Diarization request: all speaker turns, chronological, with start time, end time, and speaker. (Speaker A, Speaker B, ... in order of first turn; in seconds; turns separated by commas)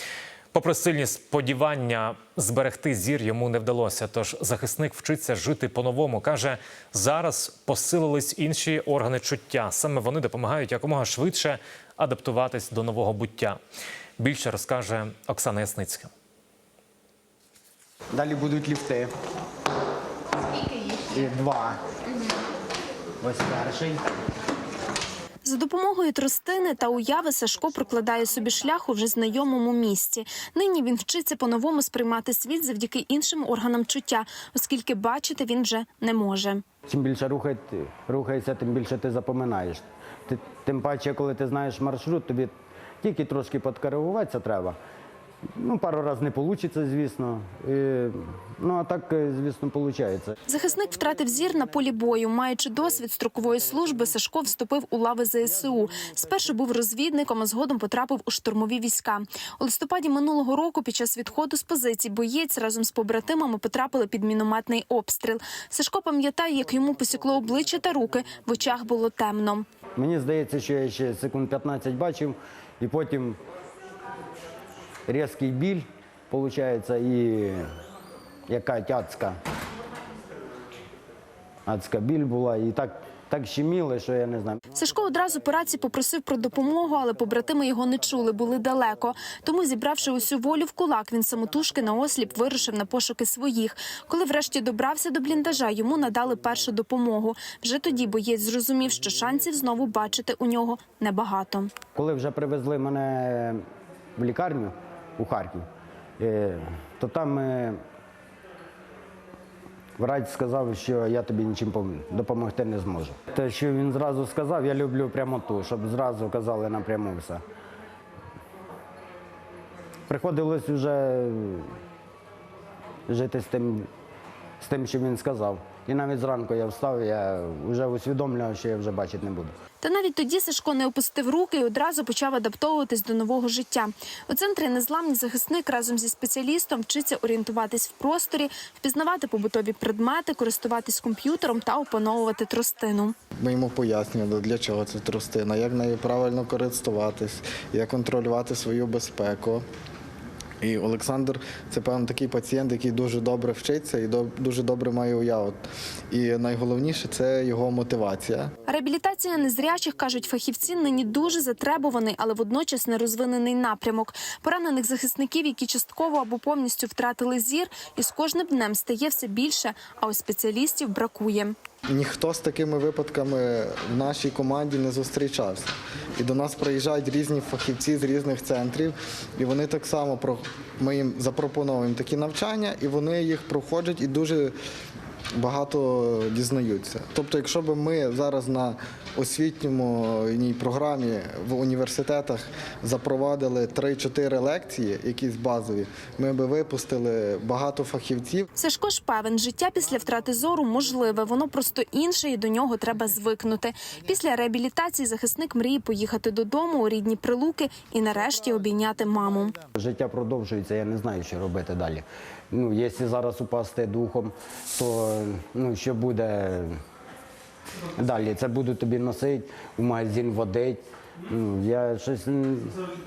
Speaker A: 0.5-13.6, Speaker A: 14.2-16.1, Speaker B: 18.1-19.1, Speaker B: 20.9-21.8, Speaker B: 23.2-24.1, Speaker C: 25.4-36.6, Speaker B: 36.9-44.8, Speaker B: 45.6-50.3, Speaker C: 50.5-69.7, Speaker B: 70.0-73.4, Speaker B: 75.1-77.7, Speaker B: 78.5-79.4, Speaker B: 81.7-84.7, Speaker C: 84.7-101.7, Speaker B: 102.0-103.6, Speaker B: 104.2-105.7, Speaker B: 106.2-107.8, Speaker B: 110.0-117.4, Speaker B: 120.1-121.7, Speaker B: 123.1-123.9, Speaker B: 124.6-129.5, Speaker C: 129.8-143.1, Speaker D: 143.4-149.6, Speaker D: 150.6-155.6, Speaker D: 156.1-158.5, Speaker C: 158.7-171.6, Speaker D: 171.9-184.5, Speaker D: 185.4-198.5, Speaker C: 198.6-209.6, Speaker B: 209.8-216.8, Speaker B: 218.0-222.8